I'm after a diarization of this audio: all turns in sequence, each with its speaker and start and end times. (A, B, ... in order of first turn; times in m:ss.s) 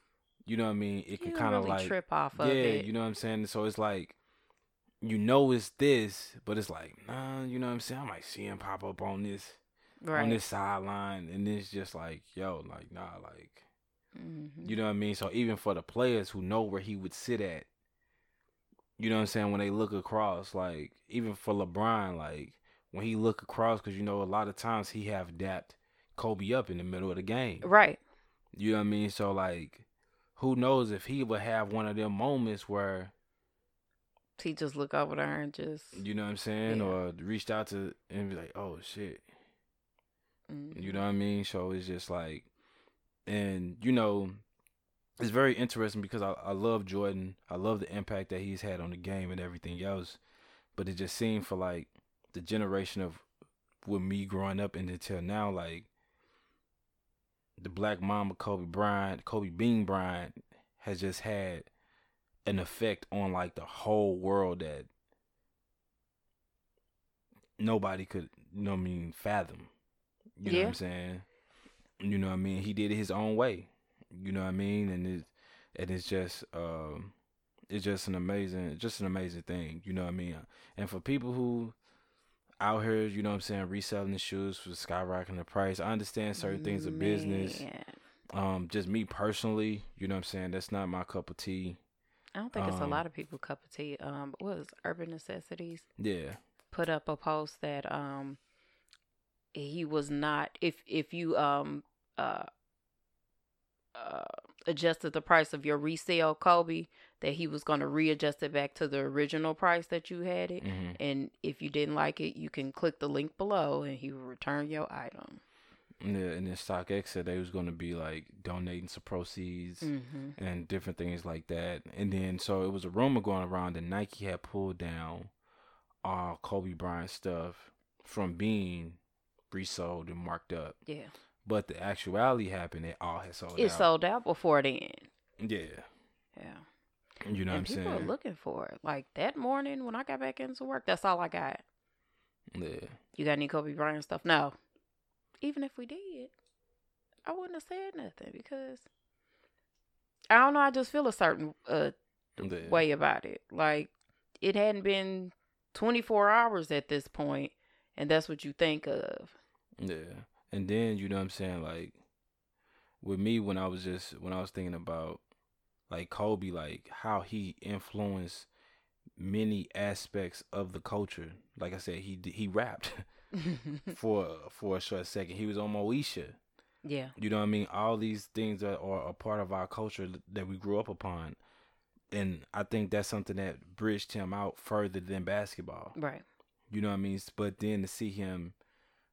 0:00.4-0:04.2 A
0:01.2-0:02.9 B
0:05.0-0:09.6 A
0:10.0-0:10.4 B
0:10.1-0:13.6 A
0:14.2-0:14.8 B
0:14.6-0:17.7 A
0:19.0-0:27.7 A
0:27.6-0:28.0 B
0:28.6-0:29.8 A
0:30.4-0:33.1 A
0:34.4-0:36.0 B
0:35.9-0:39.2 A
0:36.7-0:37.0 B
0:40.5-0:41.0 B
0:40.7-0:42.5 A
0:43.3-0:44.4 A
0:45.2-0:50.2 A
0:50.8-0:53.2 A
0:53.8-0:55.9 A
0:57.6-1:01.7 A
1:02.4-1:04.9 A
1:07.6-1:09.7 A
1:10.4-1:11.3 A
1:10.4-1:10.8 B
1:12.0-1:17.1 A
1:17.7-1:21.7 A
1:22.6-1:27.6 A
1:26.4-1:28.0 B
1:28.3-1:31.8 A
1:32.4-1:35.9 B
1:32.5-1:33.0 A
1:36.0-1:36.4 A
1:36.7-1:38.4 B
1:39.5-1:42.5 B
1:43.9-1:55.4 B
1:50.6-1:51.0 A
1:56.0-2:05.3 A
1:59.8-2:00.4 B
2:06.0-2:09.0 A
2:09.5-2:10.8 A
2:10.9-2:11.1 B
2:11.4-2:13.9 A
2:13.6-2:15.1 B
2:15.4-2:15.9 A
2:16.4-2:16.6 B
2:17.2-2:18.1 A
2:17.5-2:21.6 B
2:22.6-2:23.0 A
2:23.2-2:24.5 B
2:25.4-2:26.3 B
2:27.3-2:28.9 B
2:30.3-2:31.9 B
2:32.4-2:32.9 A
2:32.6-2:39.4 B
2:39.8-2:42.0 A
2:43.0-2:45.2 A
2:45.9-2:48.5 A
2:49.2-2:53.1 A
2:53.4-2:53.9 B
2:53.9-2:56.4 A
2:56.8-2:57.1 B
2:57.2-3:01.4 A
3:02.1-3:05.9 A
3:05.9-3:06.2 B
3:06.7-3:08.6 A